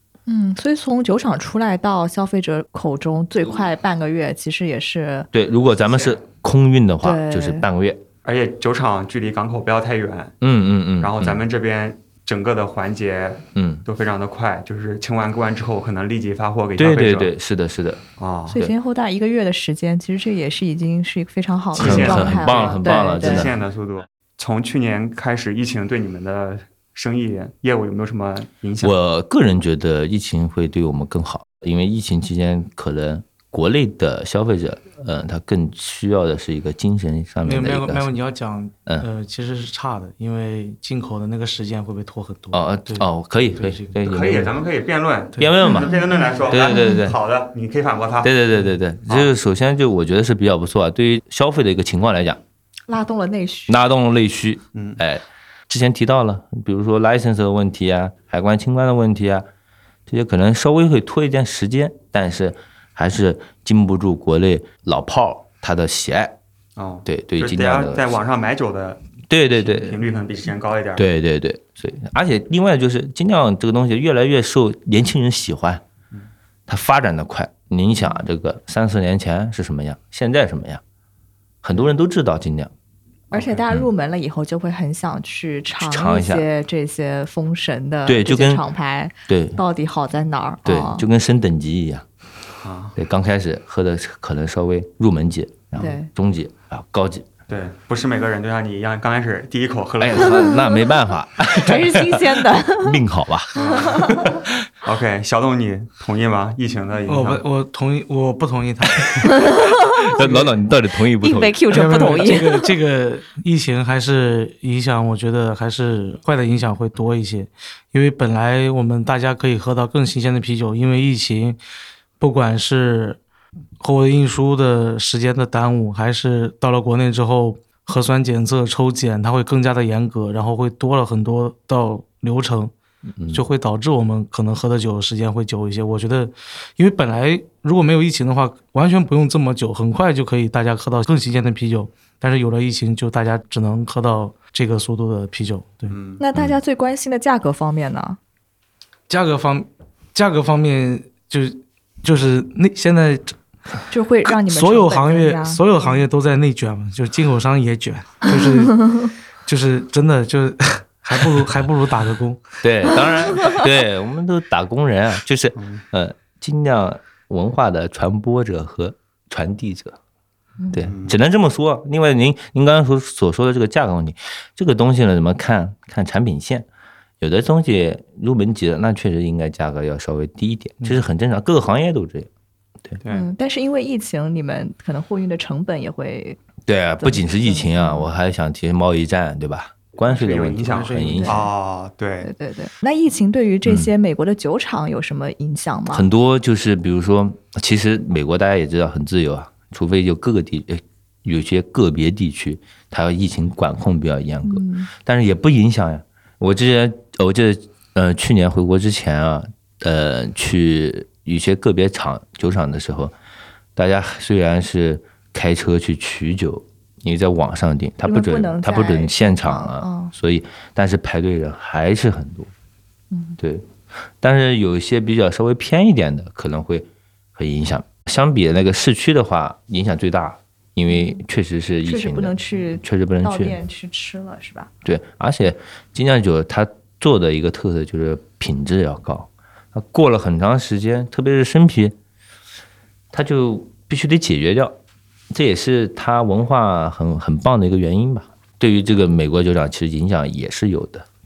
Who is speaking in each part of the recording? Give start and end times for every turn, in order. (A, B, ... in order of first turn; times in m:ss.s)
0:00.3-0:05.3 A
0:05.3-0:08.0 B
0:07.0-0:07.6 A
0:08.2-0:10.4 C
0:10.4-0:11.4 B
0:11.0-0:17.3 C
0:13.5-0:13.8 B
0:16.8-0:18.0 B
0:18.2-0:18.6 C
0:18.5-0:23.5 A
0:21.7-0:28.9 C
0:21.7-0:23.6 B
0:28.8-0:38.1 B
0:37.4-0:44.0 D
0:42.5-0:44.6 B
0:44.0-0:48.3 C
0:45.4-0:47.2 B
0:48.2-0:52.4 B
0:49.0-0:49.3 C
0:52.9-0:53.7 A
0:53.7-0:59.4 B
0:54.7-0:55.0 C
1:00.1-1:06.4 B
1:06.8-1:11.0 C
1:07.0-1:08.2 B
1:09.3-1:10.0 B
1:11.0-1:15.8 B
1:16.7-1:20.8 B
1:21.6-1:22.7 B
1:23.3-1:31.0 A
1:23.3-1:23.6 C
1:25.8-1:26.4 B
1:28.0-1:28.6 B
1:29.3-1:29.6 B
1:30.6-1:32.0 B
1:32.6-1:32.9 C
1:32.9-1:37.3 B
1:35.8-1:36.1 A
1:37.5-1:40.6 C
1:40.0-1:44.5 B
1:40.4-1:40.7 A
1:41.5-1:43.0 A
1:43.5-1:44.2 C
1:43.6-1:44.3 A
1:44.8-1:47.4 C
1:47.0-1:49.5 D
1:49.2-1:50.0 A
1:49.5-1:52.1 B
1:50.2-1:50.5 D
1:51.2-1:52.6 A
1:51.7-2:01.6 D
2:02.2-2:03.2 D
2:03.8-2:12.7 D
2:13.1-2:13.5 B
2:13.3-2:25.9 D
2:25.9-2:26.2 C
2:26.2-2:28.2 A
2:29.1-2:33.4 D
2:33.9-2:35.6 A
2:34.3-2:42.4 D
2:42.6-2:50.0 B
2:45.6-2:45.8 C
2:50.7-2:56.7 B
2:50.8-2:51.2 C
2:57.2-3:02.3 B
3:03.0-3:03.3 C
3:03.1-3:06.4 A
3:06.6-3:11.5 B
3:07.0-3:08.1 A
3:10.1-3:12.3 C
3:10.6-3:11.4 D
3:11.1-3:11.5 A
3:12.2-3:16.1 A
3:13.6-3:13.9 B
3:15.9-3:33.1 B
3:24.4-3:24.9 A
3:33.8-3:42.5 B
3:38.0-3:40.1 A
3:43.1-3:43.4 A
3:43.4-3:53.6 B
3:50.9-3:51.2 A
3:51.8-3:54.7 A
3:54.8-4:02.0 B
4:03.1-4:04.8 B
4:05.3-4:11.0 B